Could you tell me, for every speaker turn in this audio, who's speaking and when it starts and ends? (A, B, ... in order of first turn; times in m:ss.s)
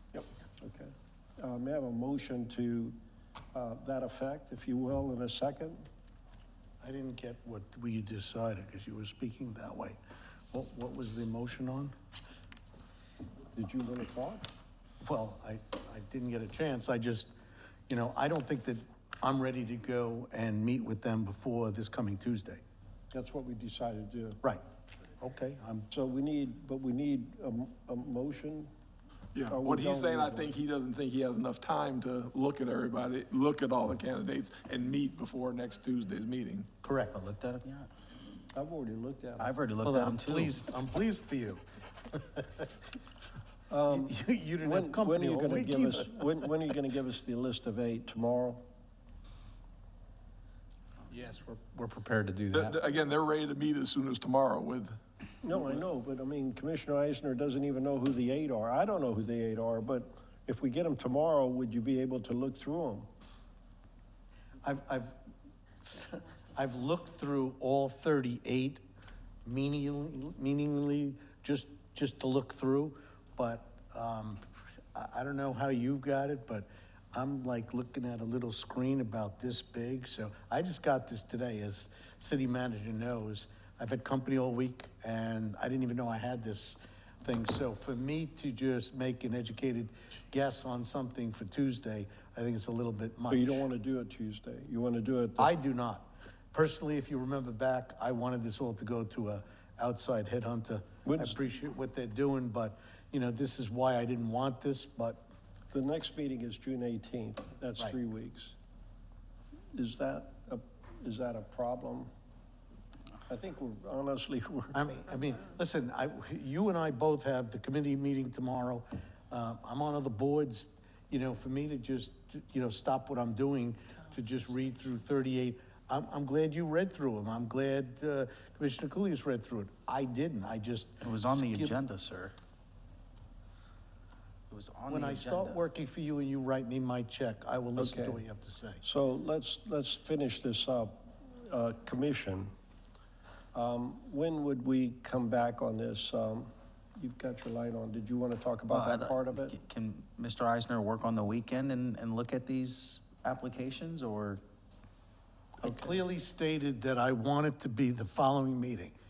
0:00.6-0:03.0 A
0:03.5-0:05.8 A
0:06.8-0:10.0 B
0:10.5-0:11.9 B
0:13.5-0:14.5 A
0:15.0-0:17.3 B
0:17.9-0:22.6 B
0:23.1-0:24.4 A
0:25.2-0:25.9 B
0:25.9-0:28.7 A
0:29.3-0:36.7 C
0:29.5-0:30.6 A
0:36.8-0:37.2 B
0:37.1-0:37.9 D
0:38.5-0:39.6 A
0:39.4-0:40.6 D
0:39.8-0:42.6 B
0:43.7-0:48.6 A
0:43.9-0:46.8 B
0:51.1-0:52.7 B
0:52.5-0:55.0 C
0:55.4-1:03.1 A
1:04.6-1:05.1 B
1:05.8-1:08.8 B
1:09.4-1:14.4 B
1:14.9-1:33.7 B
1:33.2-1:35.5 A
1:35.4-1:45.2 B
1:41.0-1:41.4 A
1:45.7-1:48.5 A
1:49.7-1:52.1 A
1:53.3-1:54.8 A
1:54.7-2:11.8 B
2:11.0-2:12.3 D
2:14.5-2:15.6 D
2:14.9-2:18.8 B
2:17.8-2:18.2 A
2:18.8-2:22.5 A
2:23.5-2:29.6 A
2:28.7-2:34.4 D
2:35.6-2:38.9 B
2:35.6-2:36.0 A